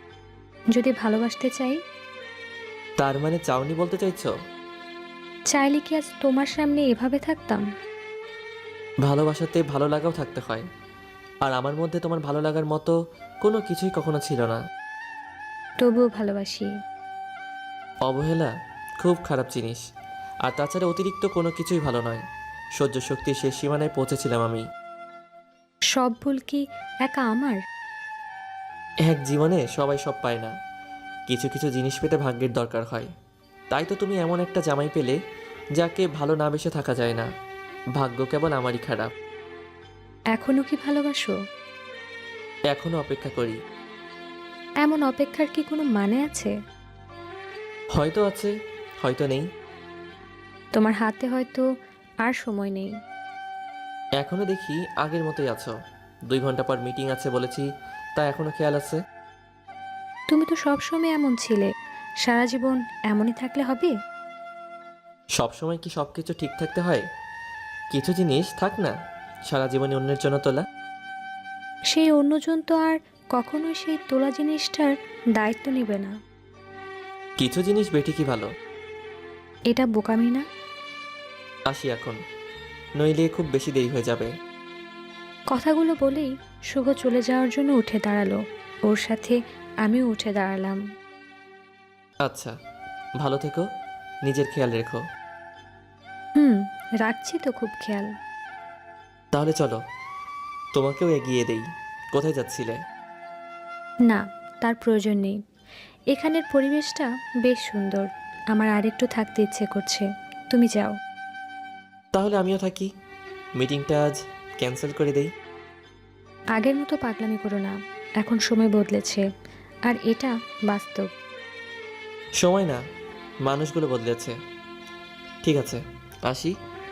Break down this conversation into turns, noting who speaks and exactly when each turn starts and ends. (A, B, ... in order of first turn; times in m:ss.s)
0:00.8-0:01.8 A
0:03.0-0:04.3 B
0:05.5-0:07.6 A
0:09.0-0:10.6 B
0:11.4-0:14.6 B
0:15.8-0:16.7 A
0:18.0-0:19.8 B
0:20.4-0:22.2 B
0:22.8-0:24.6 B
0:25.9-0:27.6 A
0:29.1-0:30.5 B
0:31.3-0:33.1 B
0:33.7-0:35.2 B
0:35.8-0:37.3 B
0:38.0-0:39.1 B
0:40.4-0:41.4 A
0:42.7-0:43.6 B
0:44.8-0:46.5 A
0:48.0-0:49.4 B
0:50.8-0:51.6 A
0:52.2-0:52.9 A
0:54.2-0:55.7 B
0:56.3-0:59.0 B
1:00.3-1:01.6 A
1:02.2-1:03.9 A
1:05.4-1:07.0 B
1:07.9-1:08.9 B
1:09.5-1:10.6 B
1:11.9-1:16.1 A
1:17.4-1:18.5 B
1:19.7-1:20.4 A
1:21.7-1:22.2 B
1:23.0-1:24.3 B
1:25.5-1:28.4 A
1:28.9-1:30.8 A
1:32.2-1:32.5 B
1:33.2-1:33.6 B
1:34.2-1:35.0 B
1:36.4-1:38.1 A
1:39.3-1:39.8 B
1:40.8-1:42.8 B
1:44.0-1:45.4 A
1:46.1-1:50.9 A
1:52.1-1:52.9 B
1:53.6-1:55.3 B
1:56.6-1:59.2 A
1:59.9-2:01.1 A
2:02.4-2:02.8 B
2:03.4-2:04.4 B
2:05.4-2:06.5 B